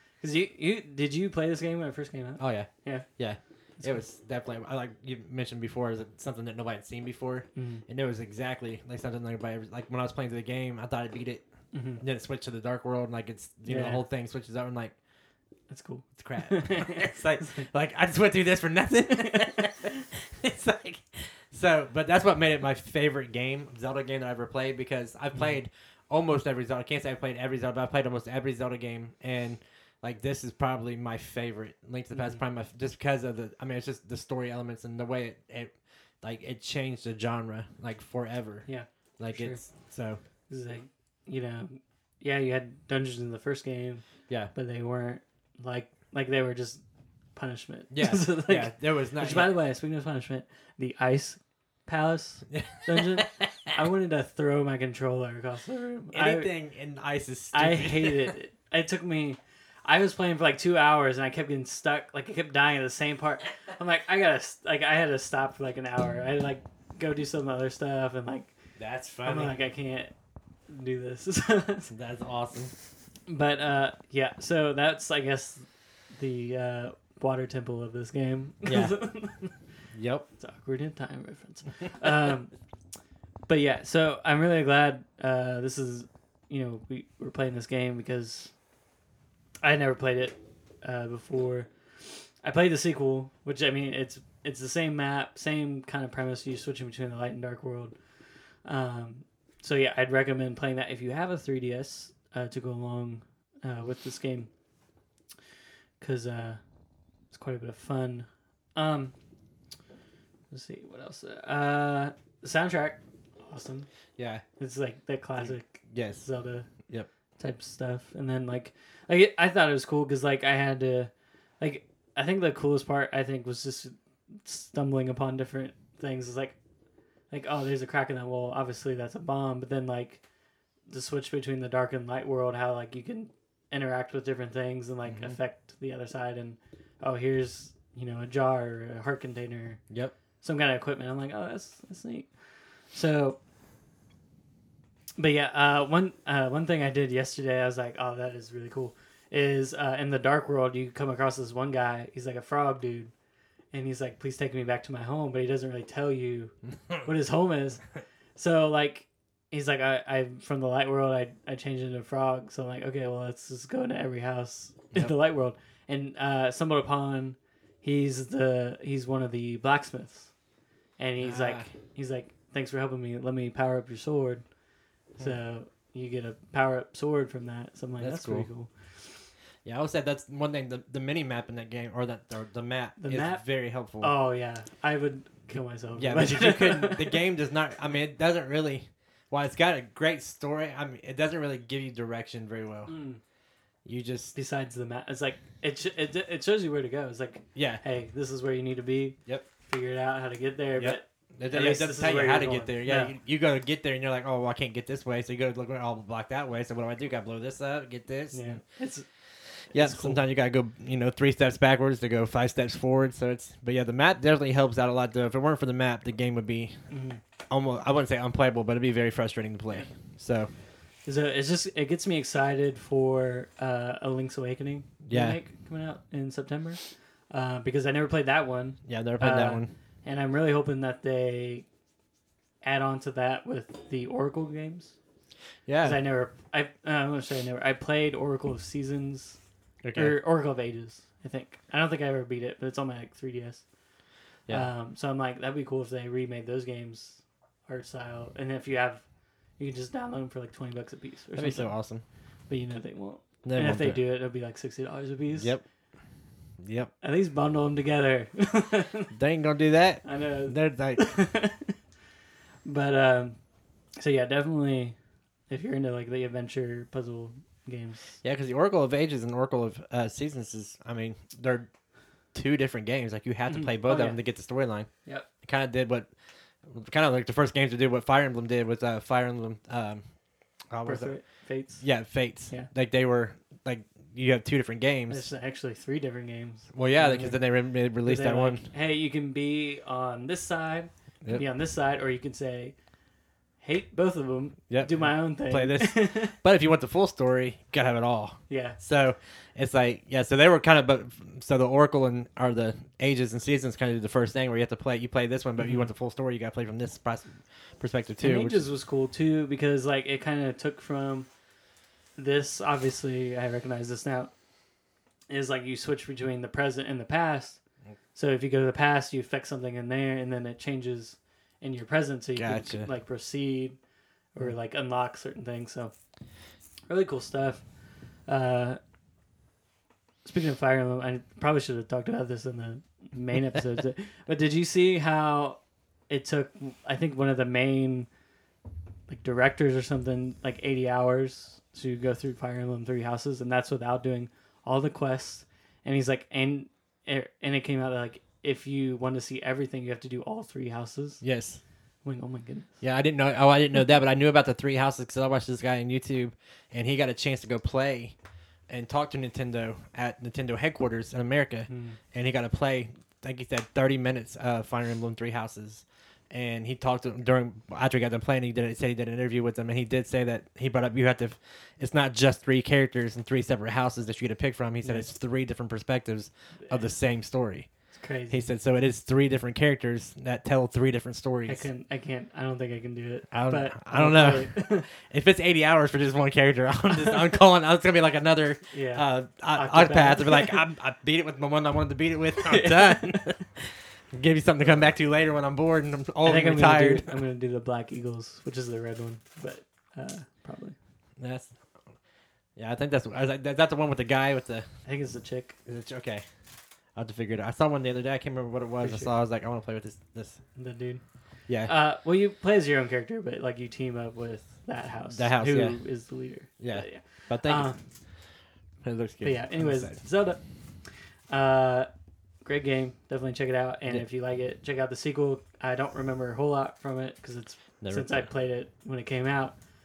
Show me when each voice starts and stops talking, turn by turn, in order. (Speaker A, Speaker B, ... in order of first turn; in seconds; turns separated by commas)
Speaker A: 0.2-3.1, Speaker B: 2.4-11.4, Speaker A: 7.5-7.8, Speaker A: 11.7-12.0, Speaker B: 11.9-14.9, Speaker A: 13.7-14.0, Speaker A: 15.7-17.7, Speaker B: 16.2-40.2, Speaker A: 32.1-32.4, Speaker A: 38.6-39.6, Speaker A: 40.5-46.8, Speaker A: 47.3-56.5, Speaker B: 47.9-49.5, Speaker B: 52.5-53.0, Speaker B: 56.1-58.3, Speaker A: 57.5-68.5, Speaker B: 68.8-69.5, Speaker A: 69.2-70.1, Speaker A: 70.7-71.9, Speaker B: 71.9-72.7, Speaker A: 73.3-79.5, Speaker B: 78.6-79.0, Speaker B: 79.9-80.2, Speaker A: 80.4-82.5, Speaker A: 83.5-88.5, Speaker A: 89.6-98.0, Speaker A: 98.6-104.5, Speaker A: 106.0-106.6, Speaker A: 107.3-109.1, Speaker A: 110.5-113.9, Speaker B: 114.2-114.4, Speaker A: 114.6-116.7, Speaker B: 115.4-116.3, Speaker A: 117.4-126.6, Speaker A: 127.3-130.2, Speaker A: 130.9-139.8, Speaker B: 135.1-135.3, Speaker A: 140.4-143.4, Speaker A: 145.2-153.1, Speaker A: 153.7-157.8, Speaker A: 158.3-170.3, Speaker A: 171.0-174.4, Speaker B: 171.2-171.7, Speaker A: 175.2-179.2, Speaker B: 178.0-178.5, Speaker B: 179.6-184.1, Speaker A: 183.0-187.2, Speaker B: 185.5-193.0, Speaker A: 192.9-193.2, Speaker B: 193.8-194.3, Speaker A: 194.3-203.1, Speaker B: 197.5-197.8, Speaker B: 200.8-208.6, Speaker A: 208.3-209.1, Speaker A: 209.7-210.2, Speaker B: 209.7-216.9, Speaker A: 216.9-217.2, Speaker B: 217.5-220.5, Speaker A: 221.0-231.7, Speaker B: 225.0-225.4, Speaker B: 228.8-229.7, Speaker A: 232.6-234.9, Speaker B: 235.7-236.0, Speaker A: 235.8-239.4, Speaker B: 239.8-240.2, Speaker A: 239.9-243.6, Speaker A: 244.5-249.0, Speaker A: 249.6-251.7, Speaker B: 251.3-252.0, Speaker A: 252.5-255.5, Speaker B: 253.4-254.0, Speaker B: 255.3-255.6, Speaker B: 256.6-256.9, Speaker A: 257.0-259.1, Speaker B: 259.1-261.1, Speaker A: 260.0-261.8, Speaker A: 262.6-263.4, Speaker A: 263.9-264.9, Speaker A: 265.5-268.2, Speaker B: 268.2-271.7, Speaker B: 272.3-274.9, Speaker A: 273.5-274.2, Speaker B: 275.4-276.1, Speaker B: 276.6-280.0, Speaker B: 280.7-285.3, Speaker A: 280.8-281.9, Speaker A: 285.1-292.7, Speaker B: 286.7-288.7, Speaker A: 293.6-296.4, Speaker B: 294.7-308.6, Speaker A: 298.5-298.8, Speaker A: 305.6-305.9, Speaker A: 308.2-311.3, Speaker A: 312.2-314.3, Speaker A: 315.3-317.6, Speaker A: 318.1-323.8, Speaker B: 322.4-322.9, Speaker A: 324.3-325.9, Speaker A: 326.9-327.6, Speaker A: 328.2-328.8, Speaker A: 330.2-335.6, Speaker A: 336.1-338.1, Speaker A: 339.1-351.2, Speaker B: 351.2-351.6, Speaker A: 352.0-352.7, Speaker B: 352.8-358.1, Speaker B: 358.7-381.7, Speaker A: 361.7-362.0, Speaker A: 374.8-375.1, Speaker A: 377.9-378.4, Speaker A: 381.5-384.9, Speaker B: 383.3-397.1, Speaker A: 388.7-390.7, Speaker A: 392.5-393.3, Speaker A: 396.2-400.8, Speaker B: 401.2-401.6, Speaker B: 402.6-404.7, Speaker A: 404.8-405.6, Speaker B: 405.6-406.2, Speaker B: 406.9-410.4, Speaker A: 408.8-409.1, Speaker A: 410.5-417.8, Speaker B: 411.5-411.7, Speaker B: 415.1-417.7, Speaker B: 418.8-420.0, Speaker A: 419.2-420.4, Speaker A: 421.3-421.9, Speaker A: 422.4-429.6, Speaker B: 427.8-428.3